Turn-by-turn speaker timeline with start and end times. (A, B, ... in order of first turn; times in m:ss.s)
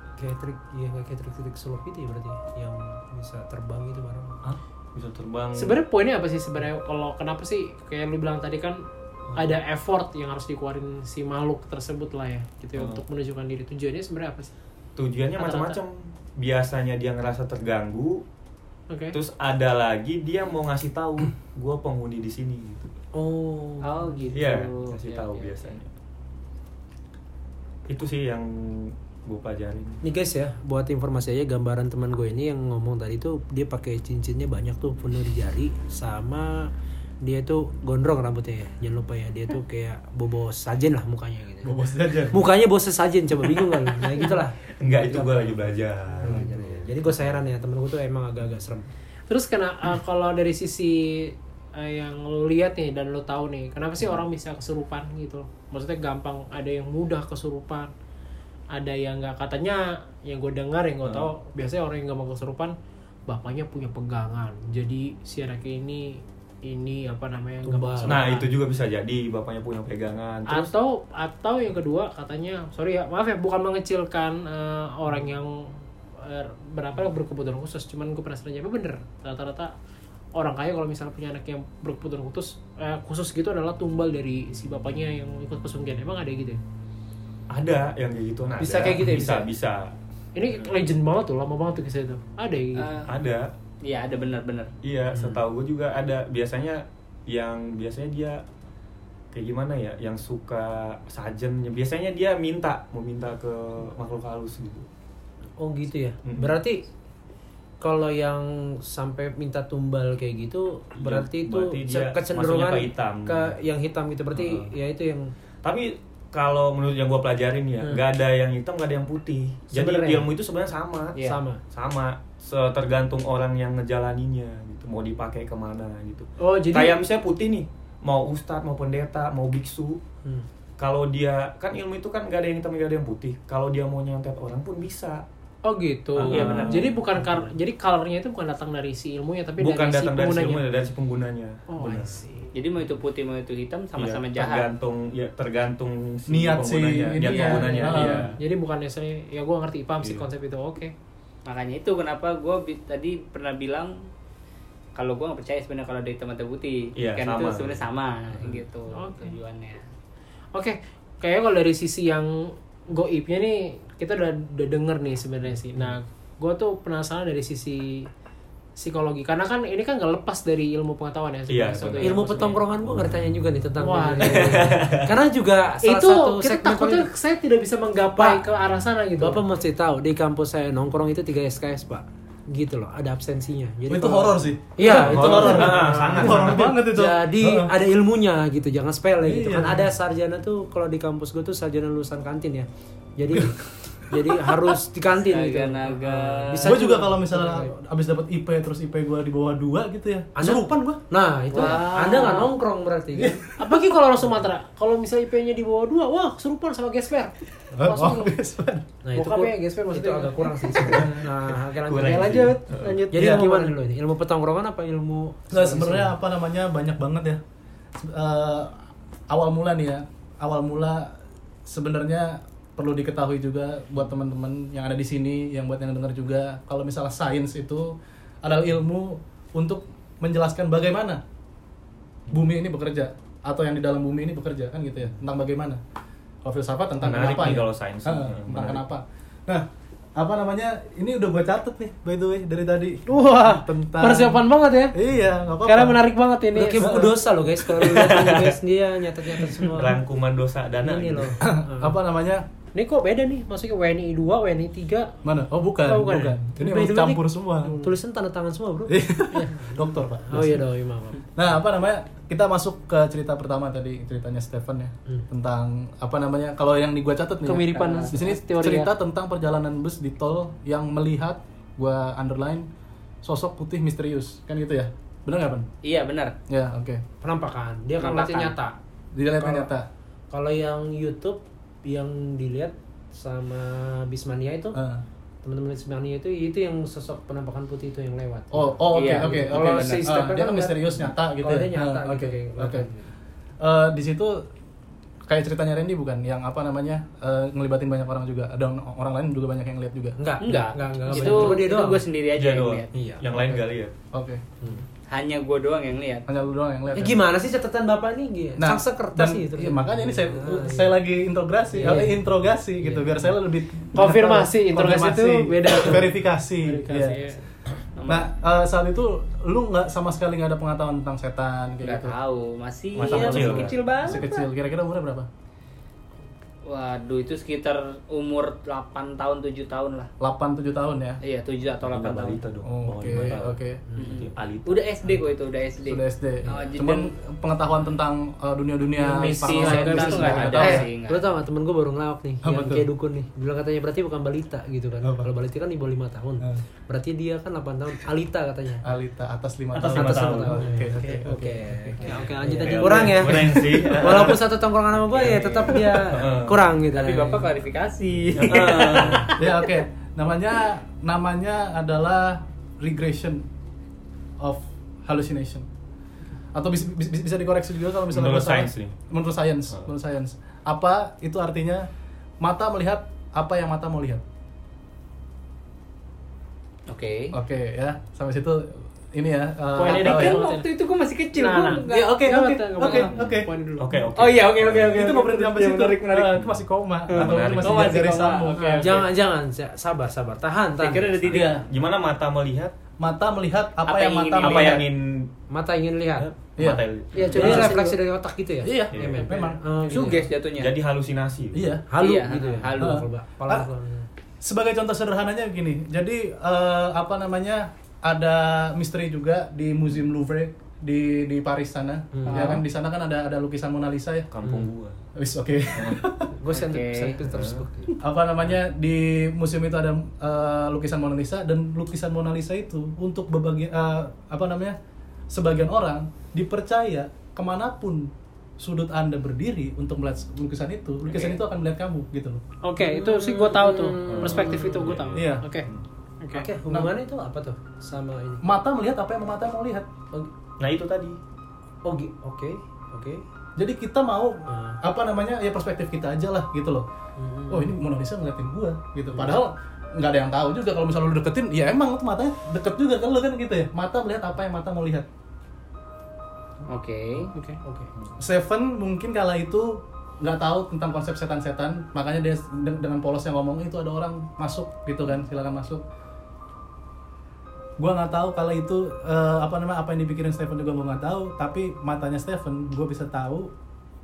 0:00.2-0:04.4 A
0:04.4-0:05.8 B
0:05.5-0:08.8 C
0:09.3-0:09.6 B
0:09.3-0:14.5 C
0:12.8-0:13.0 B
0:15.0-0:18.2 B
0:15.4-0:15.8 C
0:18.9-0:19.2 C
0:19.1-0:22.9 B
0:23.1-0:23.9 A
0:23.8-0:25.7 D
0:24.3-0:25.9 B
0:27.9-0:30.0 B
0:30.0-0:41.8 A
0:41.6-0:42.4 E
0:42.3-0:48.9 A
0:44.8-0:47.4 B
0:49.3-0:57.9 C
0:58.7-1:02.7 C
1:01.0-1:01.3 B
1:03.3-1:08.5 C
1:07.6-1:08.2 A
1:08.0-1:10.7 B
1:10.5-1:19.7 C
1:20.3-1:26.6 C
1:27.5-1:29.9 B
1:28.6-1:29.4 C
1:28.7-1:29.4 A
1:30.3-1:33.0 C
1:32.7-1:33.1 D
1:33.1-1:33.5 B
1:33.8-1:34.7 D
1:34.8-1:38.4 B
1:35.1-1:35.4 A
1:39.3-1:44.9 B
1:45.6-1:46.8 A
1:46.2-1:46.6 B
1:47.8-1:55.3 A
1:51.0-1:53.5 B
1:54.3-1:54.7 B
1:55.6-2:10.0 B
1:59.7-2:00.2 A
2:01.1-2:01.4 D
2:01.2-2:01.6 A
2:06.4-2:07.0 C
2:10.8-2:15.2 B
2:15.6-2:20.6 C
2:16.2-2:17.0 B
2:16.3-2:16.9 D
2:19.6-2:22.2 B
2:21.7-2:22.5 C
2:22.5-2:24.7 D
2:24.0-2:28.4 B
2:26.3-2:28.3 E
2:27.2-2:30.9 C
2:30.0-2:30.2 B
2:31.4-2:33.9 D
2:35.0-2:39.8 D
2:37.0-2:37.8 B
2:38.9-2:39.4 C
2:40.5-2:48.1 C
2:48.8-2:52.6 C
2:51.5-2:52.6 B
2:52.0-2:57.1 A
2:53.8-2:54.8 C
2:54.2-2:55.1 B
2:55.8-2:59.4 C
2:58.2-2:58.4 A
2:59.2-3:17.6 A
3:03.9-3:07.7 E
3:04.8-3:06.7 B
3:09.2-3:09.9 E
3:14.1-3:14.7 E
3:15.2-3:16.8 D
3:16.6-3:21.0 E
3:16.6-3:17.2 C
3:20.4-3:23.5 A
3:21.5-3:22.5 D
3:21.6-3:22.5 C
3:23.1-3:23.8 E
3:23.6-3:28.3 C
3:27.7-3:28.9 E
3:29.0-3:36.1 A
3:29.1-3:31.2 C
3:30.8-3:33.1 B
3:32.1-3:33.8 C
3:33.1-3:33.5 E
3:35.5-3:37.4 E
3:38.0-3:38.8 E
3:39.3-3:41.1 E
3:41.6-3:51.2 E
3:52.3-3:55.8 E
3:56.4-4:06.0 E
3:57.0-3:58.8 B
4:03.1-4:05.0 C
4:05.6-4:07.1 C
4:06.5-4:10.0 A
4:06.8-4:07.2 E
4:07.7-4:08.6 B
4:09.4-4:11.4 B
4:10.8-4:12.0 A
4:11.4-4:12.4 E
4:12.7-4:15.2 C
4:15.2-4:17.8 E
4:15.8-4:16.4 C
4:16.5-4:17.2 A
4:17.6-4:17.9 C
4:17.7-4:19.0 A
4:18.9-4:20.7 E
4:20.3-4:21.2 A
4:21.3-4:32.7 E
4:27.4-4:28.9 C
4:33.2-4:35.7 E
4:35.8-4:36.3 D
4:36.5-4:37.0 E
4:37.2-4:38.8 A
4:38.0-4:38.5 D
4:39.1-4:39.9 E
4:39.4-4:39.7 A
4:40.3-4:44.8 A
4:44.7-4:45.0 E
4:45.4-4:53.1 A
4:48.5-4:52.9 E
4:48.9-4:50.1 D
4:53.6-4:54.4 E
4:55.3-5:00.2 E
5:00.2-5:02.0 A
5:00.4-5:02.9 D
5:02.4-5:03.9 B
5:02.9-5:03.6 A
5:04.1-5:04.4 E
5:05.1-5:06.2 D
5:06.2-5:07.2 E
5:06.9-5:10.9 A
5:08.6-5:17.2 E
5:11.7-5:12.2 A
5:12.8-5:13.4 A
5:13.9-5:17.4 C
5:18.0-5:18.3 D
5:18.1-5:22.2 E
5:21.8-5:24.5 D
5:23.0-5:23.7 B
5:23.0-5:25.3 E
5:26.6-5:30.1 D
5:30.2-5:31.2 E
5:31.2-5:32.4 D
5:31.9-5:34.8 B
5:32.6-5:33.8 E
5:33.1-5:33.4 A
5:33.9-5:34.2 A
5:34.0-5:37.1 D
5:35.8-5:40.9 E
5:39.0-5:41.3 D
5:39.2-5:40.9 C
5:39.6-5:48.8 A
5:42.4-5:42.9 E
5:45.0-5:45.3 E
5:48.8-5:52.1 E
5:49.7-5:50.8 B
5:49.9-5:57.5 A
5:52.0-5:53.1 C
5:52.4-5:54.6 B
5:52.8-5:54.4 E
5:55.1-5:55.7 D
5:55.1-5:56.6 B
5:56.9-5:59.8 D
5:58.4-5:59.3 B
5:58.6-5:59.3 A
5:59.3-6:03.4 E
6:04.4-6:05.7 E
6:06.5-6:11.9 E
6:08.1-6:08.9 B
6:12.4-6:14.2 E
6:16.9-6:17.3 D
6:17.3-6:20.4 E
6:19.7-6:20.6 C
6:19.8-6:22.2 D
6:21.3-6:24.0 C
6:21.9-6:23.5 E
6:23.1-6:25.0 B
6:24.1-6:26.4 D
6:24.9-6:28.8 E
6:26.4-6:26.6 B
6:27.1-6:29.1 D
6:27.1-6:28.0 B
6:28.6-6:28.9 C
6:28.8-6:31.2 A
6:30.8-6:31.6 D
6:31.2-6:31.6 E
6:31.3-6:32.7 B
6:33.0-6:34.9 E
6:33.8-6:34.8 D
6:34.4-6:35.3 B
6:35.5-6:36.3 A
6:36.2-6:37.7 B
6:36.6-6:37.8 E
6:37.2-6:37.5 D
6:37.2-6:40.2 A
6:37.2-6:38.0 C
6:38.6-6:40.2 E
6:38.9-6:39.3 B
6:39.9-6:40.7 D
6:40.6-6:41.7 B
6:41.5-6:41.9 E
6:41.9-6:44.1 A
6:42.0-6:43.0 D
6:42.8-6:43.7 E
6:44.4-6:54.3 E
6:52.1-6:52.6 A
6:54.3-6:55.0 B
6:55.2-6:56.3 E
6:55.7-6:56.0 B
6:56.4-6:57.9 A
6:56.5-6:57.2 D
6:57.2-6:57.7 B
6:58.0-7:04.8 E
7:05.3-7:12.4 E
7:12.6-7:15.7 C
7:12.8-7:15.1 A
7:14.1-7:15.8 B
7:15.1-7:15.5 E
7:16.2-7:16.5 C
7:16.3-7:18.4 A
7:16.6-7:16.9 E
7:18.4-7:19.9 E
7:20.6-7:21.2 B
7:21.8-7:23.2 A
7:23.6-7:26.8 E
7:24.5-7:24.8 A
7:27.2-7:27.7 A
7:27.5-7:35.1 E
7:29.1-7:29.4 A
7:36.7-7:37.3 D
7:37.3-7:37.6 C
7:37.6-7:37.9 A
7:38.2-7:45.8 E
7:47.8-7:53.5 E